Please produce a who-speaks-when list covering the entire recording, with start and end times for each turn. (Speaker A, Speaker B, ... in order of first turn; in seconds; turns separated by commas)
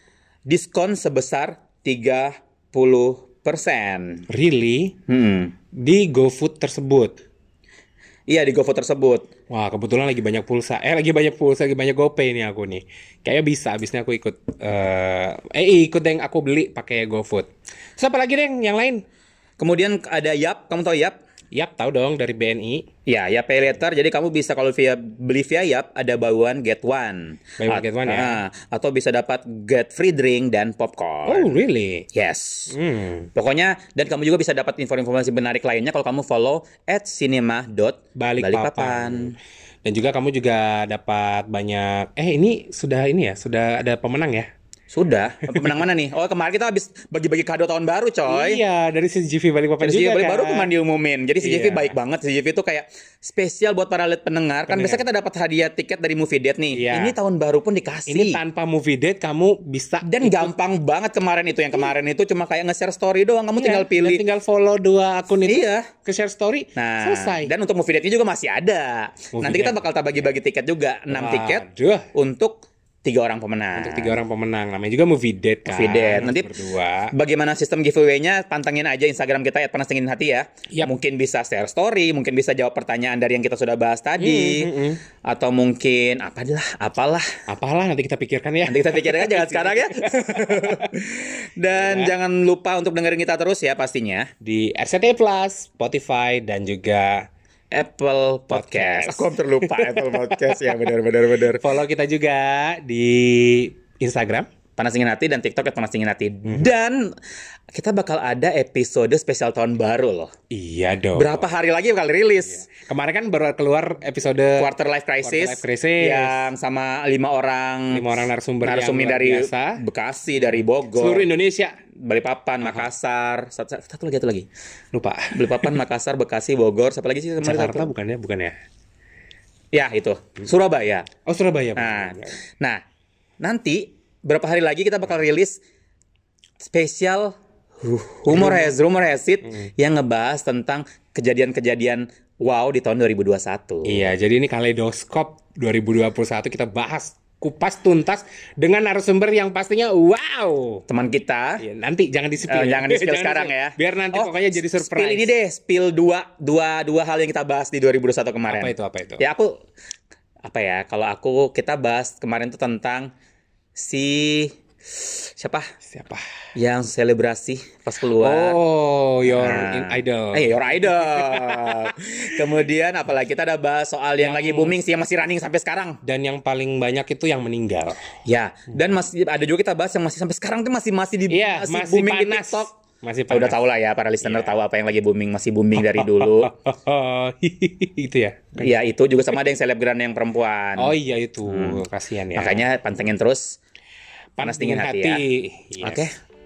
Speaker A: 0.5-4.2, Speaker B: 4.3-5.0, Speaker A: 5.1-5.5, Speaker B: 5.8-7.2, Speaker A: 8.3-9.3, Speaker B: 9.5-19.0, Speaker A: 19.6-21.2, Speaker B: 21.5-22.9, Speaker A: 23.1-31.6, Speaker B: 27.6-28.4, Speaker B: 31.2-32.1, Speaker A: 32.1-32.7, Speaker B: 32.7-33.3, Speaker A: 33.4-39.4, Speaker B: 38.1-44.5, Speaker A: 44.9-48.6, Speaker B: 45.4-45.7, Speaker B: 48.2-50.7, Speaker A: 49.8-58.4, Speaker B: 51.4-51.9, Speaker B: 54.7-55.0, Speaker B: 56.7-57.1, Speaker B: 58.1-60.5, Speaker A: 60.0-64.2, Speaker B: 63.6-67.5, Speaker A: 65.5-65.9, Speaker A: 66.8-74.1, Speaker B: 69.3-70.3, Speaker B: 71.1-72.1, Speaker B: 73.7-77.1, Speaker A: 75.7-76.6, Speaker A: 77.1-84.7, Speaker B: 84.2-85.0, Speaker A: 85.2-87.3, Speaker B: 87.5-90.9, Speaker A: 88.7-94.3, Speaker B: 91.7-92.1, Speaker B: 94.4-97.2, Speaker A: 97.7-101.6, Speaker B: 98.5-100.9, Speaker B: 101.5-104.5, Speaker A: 104.8-107.1, Speaker A: 107.7-110.3, Speaker B: 110.5-111.5, Speaker A: 111.1-112.7, Speaker B: 112.7-114.7, Speaker A: 114.6-118.0, Speaker B: 115.2-116.5, Speaker B: 117.9-119.8, Speaker A: 118.6-121.3, Speaker B: 120.4-121.8, Speaker A: 122.0-124.5, Speaker B: 124.9-125.8, Speaker A: 125.3-127.9, Speaker B: 127.4-128.6, Speaker A: 129.7-131.1, Speaker B: 131.2-132.4, Speaker A: 131.8-132.8, Speaker A: 133.4-135.6, Speaker A: 136.6-144.1, Speaker B: 138.3-138.7, Speaker B: 143.8-150.8, Speaker A: 150.9-151.6, Speaker B: 151.6-155.3, Speaker A: 152.5-159.6, Speaker B: 158.5-159.2, Speaker A: 160.4-163.1, Speaker A: 163.7-165.7, Speaker B: 165.8-166.2, Speaker A: 166.6-168.6, Speaker B: 168.2-171.9, Speaker A: 169.2-176.0, Speaker B: 174.2-174.7, Speaker B: 176.0-178.0, Speaker A: 178.2-182.7, Speaker B: 181.3-183.6, Speaker A: 183.3-186.5, Speaker B: 184.2-184.6, Speaker B: 185.8-188.7, Speaker A: 188.6-193.6, Speaker B: 190.8-192.6, Speaker B: 194.4-196.1, Speaker A: 194.4-195.2, Speaker A: 195.8-196.1